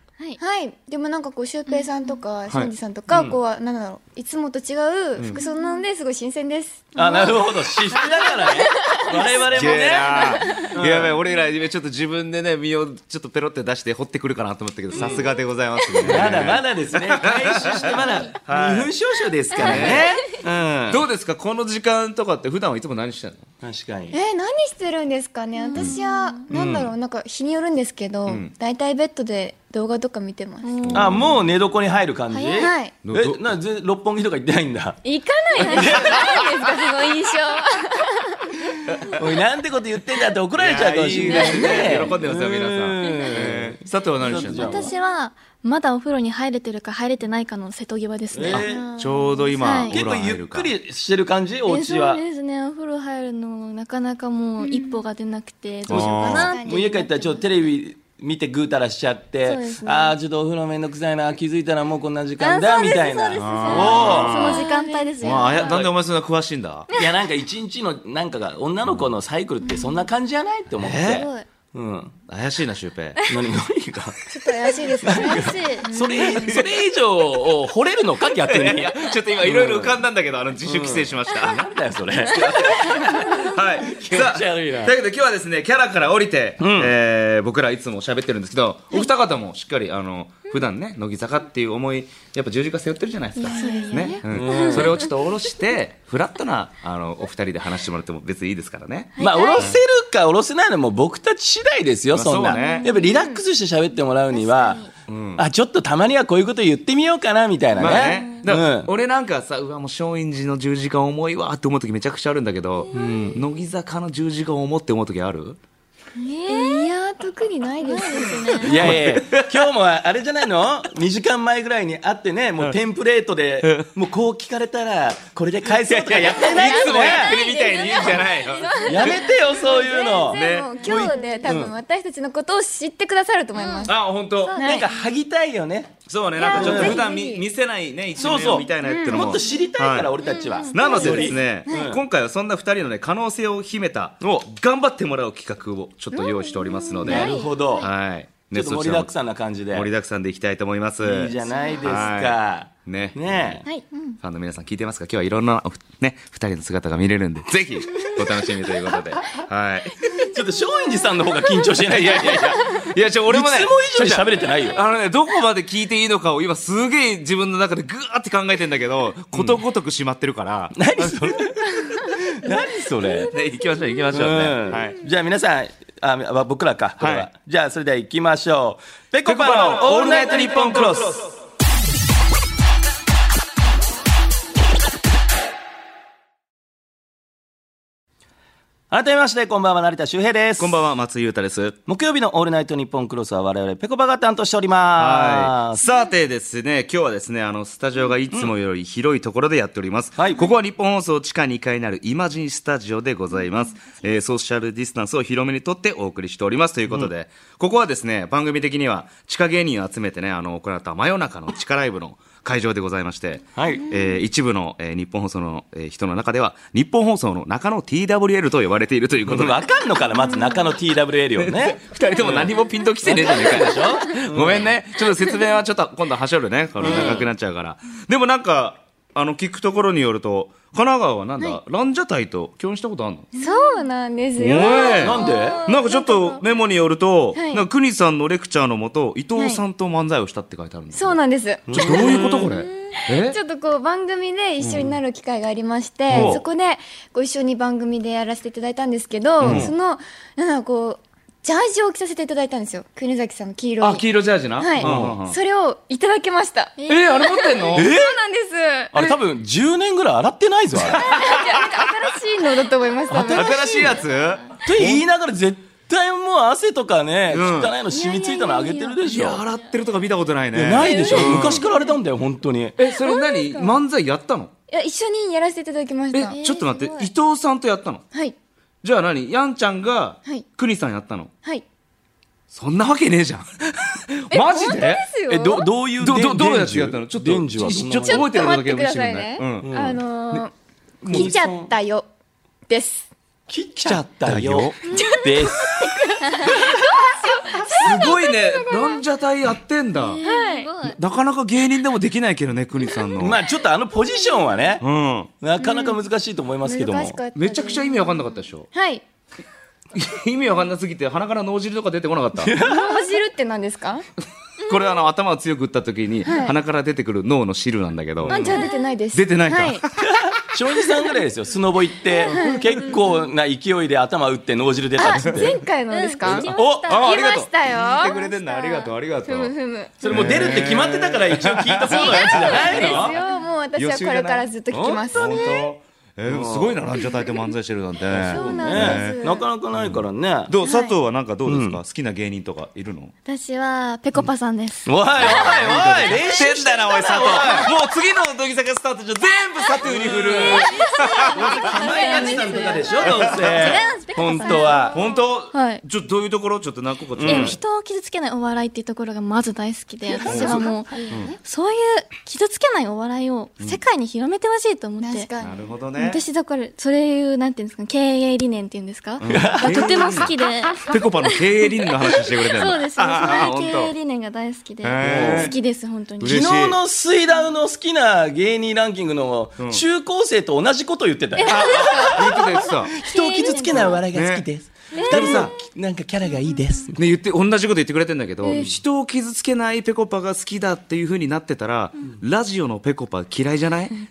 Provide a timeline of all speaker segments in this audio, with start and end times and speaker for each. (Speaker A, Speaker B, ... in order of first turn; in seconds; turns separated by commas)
Speaker A: 0.4-7.4, Speaker B: 1.7-2.2, Speaker C: 3.1-3.4, Speaker B: 5.3-5.9, Speaker C: 7.0-11.2, Speaker A: 8.0-9.4, Speaker B: 8.1-8.4, Speaker D: 9.5-18.9, Speaker A: 10.2-10.6, Speaker B: 14.9-15.3, Speaker C: 15.0-15.2, Speaker C: 16.0-21.0, Speaker D: 19.6-20.2, Speaker B: 19.6-20.2, Speaker D: 20.9-23.4, Speaker C: 23.6-24.2, Speaker A: 24.1-30.8, Speaker B: 25.6-26.4, Speaker C: 26.5-26.9, Speaker D: 28.3-28.5, Speaker B: 30.6-31.1, Speaker D: 30.9-31.5, Speaker C: 30.9-35.0, Speaker B: 32.3-32.7, Speaker A: 32.6-32.9, Speaker D: 33.0-33.4, Speaker A: 35.0-38.7, Speaker B: 35.6-36.0, Speaker C: 35.6-36.1, Speaker C: 39.1-44.9, Speaker D: 40.6-44.9, Speaker A: 41.2-42.1, Speaker B: 44.5-48.7, Speaker C: 48.3-48.9, Speaker A: 48.5-49.7, Speaker D: 48.5-50.7, Speaker B: 49.5-50.0, Speaker C: 49.8-52.2, Speaker B: 51.7-57.1, Speaker A: 54.6-55.0, Speaker D: 55.9-56.6, Speaker A: 55.9-57.3, Speaker C: 56.6-64.4, Speaker B: 59.4-60.1, Speaker B: 62.4-65.9, Speaker A: 62.6-65.9, Speaker D: 63.4-64.7, Speaker D: 65.2-66.9, Speaker C: 67.0-72.2, Speaker D: 70.8-71.3, Speaker B: 71.1-71.5, Speaker D: 72.3-73.2, Speaker C: 73.3-74.2, Speaker A: 74.3-76.5, Speaker B: 74.5-75.9, Speaker C: 75.0-80.0, Speaker D: 76.2-76.8, Speaker D: 78.3-99.8, Speaker C: 80.6-82.8, Speaker C: 83.8-84.9, Speaker C: 86.6-86.9, Speaker B: 93.4-95.0, Speaker A: 93.4-94.2, Speaker C: 94.3-95.0, Speaker B: 99.2-99.8, Speaker C: 99.2-104.8, Speaker D: 102.1-102.9, Speaker B: 102.5-103.0, Speaker A: 102.7-103.4, Speaker B: 104.3-104.9, Speaker D: 105.1-105.4, Speaker C: 105.4-108.9, Speaker D: 107.8-115.6, Speaker B: 107.8-108.2, Speaker C: 112.9-113.4, Speaker B: 116.2-116.9, Speaker A: 116.5-118.8, Speaker B: 117.8-118.8, Speaker D: 118.6-119.7, Speaker C: 118.6-127.3, Speaker D: 123.6-123.9, Speaker D: 125.7-129.3, Speaker A: 126.3-134.9, Speaker B: 127.3-129.1, Speaker C: 128.8-131.7, Speaker D: 130.3-130.8, Speaker B: 130.7-131.6, Speaker B: 133.6-134.8, Speaker D: 133.9-134.6, Speaker C: 134.6-135.9, Speaker D: 136.1-140.1, Speaker A: 136.4-137.4, Speaker B: 136.4-137.1, Speaker C: 136.5-137.1, Speaker C: 138.2-142.0, Speaker A: 138.4-139.5, Speaker B: 140.3-141.3, Speaker A: 140.4-141.9, Speaker D: 140.7-149.1, Speaker A: 146.1-147.5, Speaker B: 146.6-147.9, Speaker C: 147.0-147.9, Speaker C: 148.5-149.9, Speaker D: 149.7-153.7, Speaker C: 151.0-153.6, Speaker B: 153.7-154.1, Speaker D: 154.2-159.9, Speaker C: 160.2-164.8, Speaker D: 161.8-171.8, Speaker C: 169.3-169.6, Speaker C: 170.8-173.3, Speaker D: 173.3-175.0, Speaker C: 174.1-181.3, Speaker D: 177.0-177.3, Speaker D: 179.2-181.3, Speaker C: 188.9-190.8, Speaker D: 190.6-191.8, Speaker C: 191.9-195.8, Speaker D: 195.0-219.6, Speaker C: 200.2-200.5, Speaker C: 213.6-213.9, Speaker C: 219.3-224.7, Speaker D: 221.4-233.3, Speaker C: 226.8-227.3, Speaker B: 233.3-233.8, Speaker A: 233.4-235.7, Speaker D: 234.4-241.2, Speaker B: 234.6-236.4, Speaker C: 235.0-235.6, Speaker A: 237.3-237.7, Speaker A: 239.4-239.6, Speaker A: 240.9-254.1, Speaker C: 241.7-242.1, Speaker D: 241.7-243.4, Speaker D: 244.6-244.9, Speaker C: 246.1-246.4, Speaker D: 246.1-246.4, Speaker D: 249.4-249.7, Speaker C: 249.4-249.7, Speaker D: 253.8-255.4, Speaker A: 254.6-256.8, Speaker C: 254.8-255.2, Speaker B: 256.8-257.9, Speaker D: 256.9-257.9, Speaker C: 257.7-258.1, Speaker A: 257.9-258.9, Speaker C: 258.9-261.0, Speaker D: 260.9-261.8, Speaker A: 260.9-264.0, Speaker D: 263.1-265.1, Speaker C: 264.6-269.4, Speaker D: 267.3-267.8, Speaker B: 267.9-269.0, Speaker D: 269.0-271.6, Speaker C: 270.5-272.8, Speaker A: 270.8-271.7, Speaker D: 272.8-274.5, Speaker A: 272.9-273.8, Speaker A: 274.7-276.4, Speaker D: 276.1-278.0, Speaker B: 276.3-277.1, Speaker D: 278.8-281.3, Speaker D: 282.5-285.1, Speaker A: 284.3-285.7, Speaker C: 285.3-288.4, Speaker D: 286.0-290.4, Speaker A: 288.0-290.5, Speaker C: 289.6-290.0, Speaker D: 291.0-291.4, Speaker C: 291.0-291.7, Speaker A: 291.1-292.1, Speaker A: 292.7-293.1, Speaker C: 293.5-295.9, Speaker D: 293.8-294.9, Speaker B: 294.9-295.2, Speaker A: 294.9-299.0, Speaker B: 296.3-296.7, Speaker B: 297.7-298.4, Speaker D: 297.8-300.2, Speaker B: 299.9-301.0, Speaker A: 300.2-300.7, Speaker D: 300.8-303.4, Speaker C: 303.2-304.8, Speaker D: 304.8-305.3, Speaker C: 305.4-307.2, Speaker A: 305.6-306.0, Speaker A: 306.6-308.1, Speaker D: 307.4-308.7, Speaker A: 308.7-309.0, Speaker D: 309.9-312.6, Speaker C: 312.4-313.0, Speaker A: 312.6-314.1, Speaker D: 314.6-318.6, Speaker A: 316.3-316.6, Speaker C: 318.2-318.6, Speaker A: 318.3-319.8, Speaker B: 318.4-318.9, Speaker D: 319.1-320.1, Speaker C: 320.1-325.5, Speaker A: 322.2-322.8, Speaker A: 325.0-328.2, Speaker B: 325.9-328.9, Speaker D: 326.3-333.2, Speaker A: 329.1-330.3, Speaker C: 330.0-333.2, Speaker A: 331.9-335.6, Speaker B: 332.5-333.4, Speaker D: 333.8-339.2, Speaker B: 335.2-335.6, Speaker C: 336.3-336.8, Speaker C: 338.1-340.5, Speaker A: 338.2-339.4, Speaker D: 339.7-343.1, Speaker A: 340.6-340.9, Speaker C: 341.5-341.8, Speaker B: 343.3-345.6, Speaker C: 344.9-347.7, Speaker D: 345.2-351.8, Speaker C: 349.8-350.7, Speaker B: 350.3-355.8, Speaker A: 351.3-352.9, Speaker C: 351.6-355.0, Speaker D: 353.0-353.8, Speaker A: 353.6-355.0, Speaker D: 354.9-357.6, Speaker C: 357.1-357.6, Speaker B: 357.2-365.3, Speaker A: 360.1-361.3, Speaker D: 360.2-361.4, Speaker A: 365.0-365.8, Speaker D: 365.4-366.2, Speaker B: 365.9-376.6, Speaker D: 369.2-370.3, Speaker C: 369.3-369.9, Speaker D: 370.9-373.9, Speaker D: 374.8-375.6, Speaker C: 375.0-375.5, Speaker D: 376.2-376.8, Speaker C: 376.2-387.0, Speaker B: 381.4-384.0, Speaker A: 381.4-382.6, Speaker D: 381.5-382.9, Speaker D: 383.7-384.5, Speaker B: 384.9-385.5, Speaker D: 385.0-385.5, Speaker D: 387.0-393.9, Speaker B: 388.4-388.7